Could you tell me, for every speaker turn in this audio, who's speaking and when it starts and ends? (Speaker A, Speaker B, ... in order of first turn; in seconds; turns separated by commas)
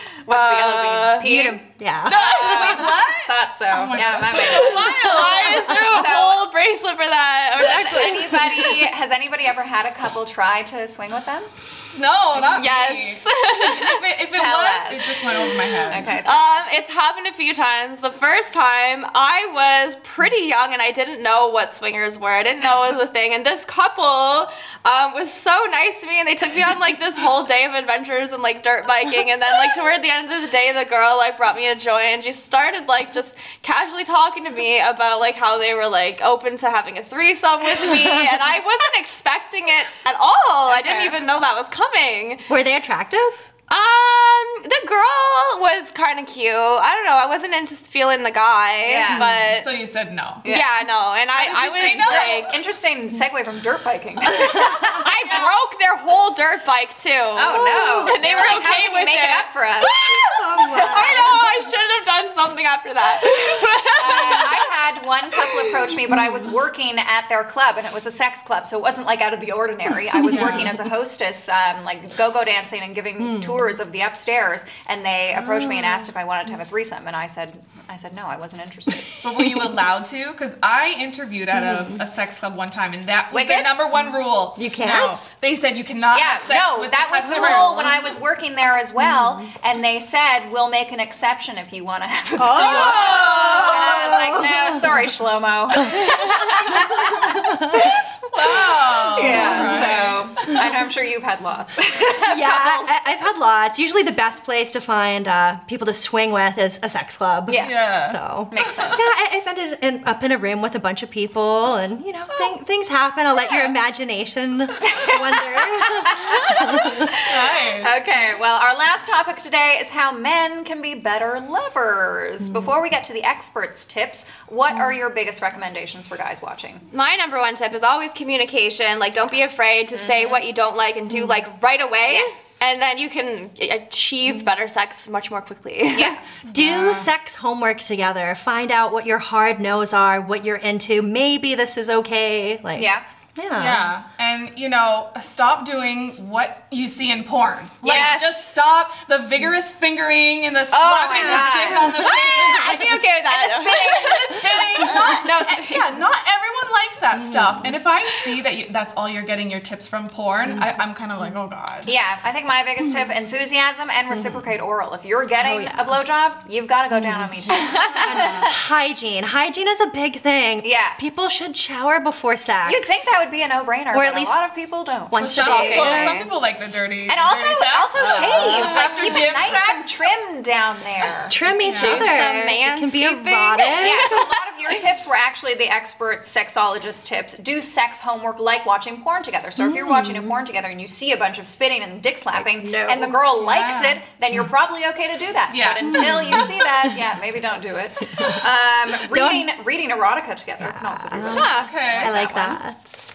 Speaker A: 0.2-6.5, Speaker B: 0.3-1.3, Speaker C: 1.2-3.0, Speaker D: 2.0-5.9, Speaker B: 4.6-8.9, Speaker A: 7.5-11.5, Speaker D: 11.9-16.1, Speaker B: 12.4-14.0, Speaker A: 14.3-16.7, Speaker B: 16.0-42.5, Speaker A: 40.6-41.2, Speaker C: 42.5-43.5, Speaker B: 43.7-49.7, Speaker A: 48.8-49.3, Speaker C: 49.1-49.4, Speaker D: 49.5-50.4, Speaker A: 50.4-50.8, Speaker B: 50.4-52.5, Speaker D: 51.4-52.5, Speaker A: 51.7-55.4, Speaker B: 55.0-64.6, Speaker A: 57.3-60.0, Speaker C: 60.3-61.3, Speaker A: 64.0-79.1, Speaker C: 66.1-66.5, Speaker C: 70.2-70.8, Speaker D: 70.3-70.8, Speaker C: 73.2-73.8, Speaker C: 75.5-76.1, Speaker D: 79.2-88.0, Speaker C: 81.5-82.0, Speaker A: 83.3-83.8, Speaker C: 84.5-85.2, Speaker A: 86.1-98.0, Speaker C: 87.3-88.1, Speaker C: 89.0-89.5, Speaker B: 92.4-93.8, Speaker C: 92.4-94.9, Speaker D: 92.6-93.7, Speaker B: 96.0-96.4, Speaker C: 97.4-97.8, Speaker D: 98.3-100.3, Speaker A: 98.6-103.0, Speaker C: 99.2-99.9, Speaker C: 102.3-117.1, Speaker A: 107.5-107.8, Speaker D: 107.6-109.0, Speaker A: 108.5-109.0, Speaker A: 114.8-126.8, Speaker D: 117.2-117.9, Speaker C: 122.4-122.8, Speaker B: 126.9-136.2, Speaker A: 129.9-130.4, Speaker C: 131.1-131.4, Speaker A: 132.1-132.6, Speaker A: 135.9-136.2, Speaker D: 136.4-137.1, Speaker C: 136.5-143.9, Speaker A: 142.8-143.0, Speaker D: 143.6-153.0, Speaker A: 147.8-148.6, Speaker B: 150.7-155.9, Speaker A: 150.8-155.4, Speaker D: 154.3-161.9, Speaker C: 157.1-157.7, Speaker A: 161.8-168.5, Speaker C: 164.1-164.4, Speaker C: 165.4-166.0, Speaker C: 166.9-173.1, Speaker B: 167.5-168.2, Speaker A: 170.6-171.0, Speaker A: 172.7-176.0, Speaker C: 173.9-174.4, Speaker C: 175.1-176.2, Speaker D: 175.2-180.0, Speaker B: 175.3-176.3, Speaker A: 177.1-181.4, Speaker B: 178.0-179.1, Speaker C: 181.3-184.2, Speaker D: 181.6-182.1, Speaker B: 181.7-184.7, Speaker A: 183.8-202.6, Speaker C: 189.6-190.4, Speaker C: 192.3-193.2, Speaker D: 193.4-194.0, Speaker D: 195.5-196.5, Speaker C: 195.8-197.0, Speaker C: 199.1-199.5, Speaker C: 200.6-203.0, Speaker B: 201.3-201.8, Speaker D: 201.5-202.1